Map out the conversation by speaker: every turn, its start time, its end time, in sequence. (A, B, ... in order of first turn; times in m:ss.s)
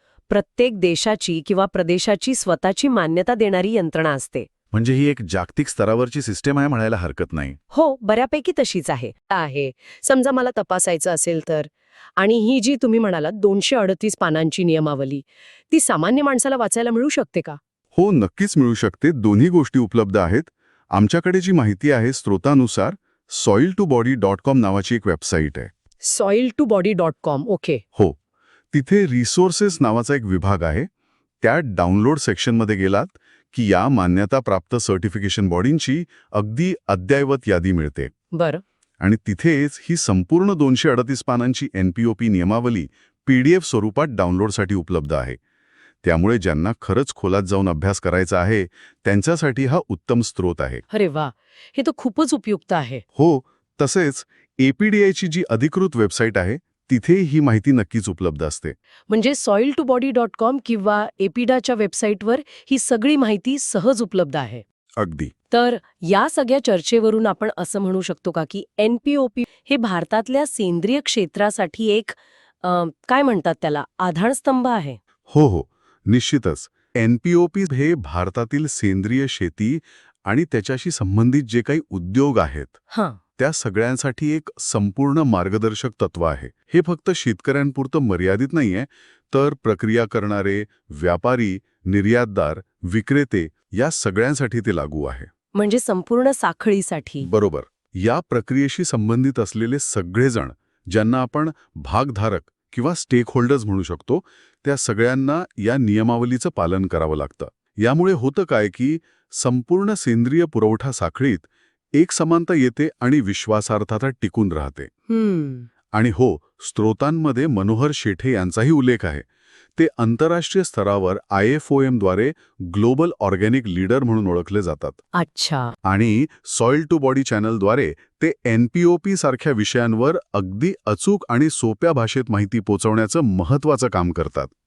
0:00.3-0:04.5 A
0:04.7-0:07.6 B
0:07.7-0:17.6 A
0:17.9-0:25.7 B
0:26.0-0:27.8 A
0:28.7-0:30.9 B
0:31.4-0:38.1 B
0:38.3-0:38.6 A
0:39.0-0:45.4 B
0:46.0-0:50.8 B
0:50.9-0:53.0 A
0:53.2-0:58.7 B
0:59.1-1:04.6 A
1:05.0-1:05.3 B
1:05.5-1:15.0 A
1:15.3-1:22.8 B
1:22.9-1:23.2 A
1:23.4-1:35.3 B
1:35.5-1:37.3 A
1:37.2-1:54.9 B
1:55.1-1:55.7 A
1:55.9-2:05.0 B
2:05.1-2:05.7 A
2:05.8-2:14.5 B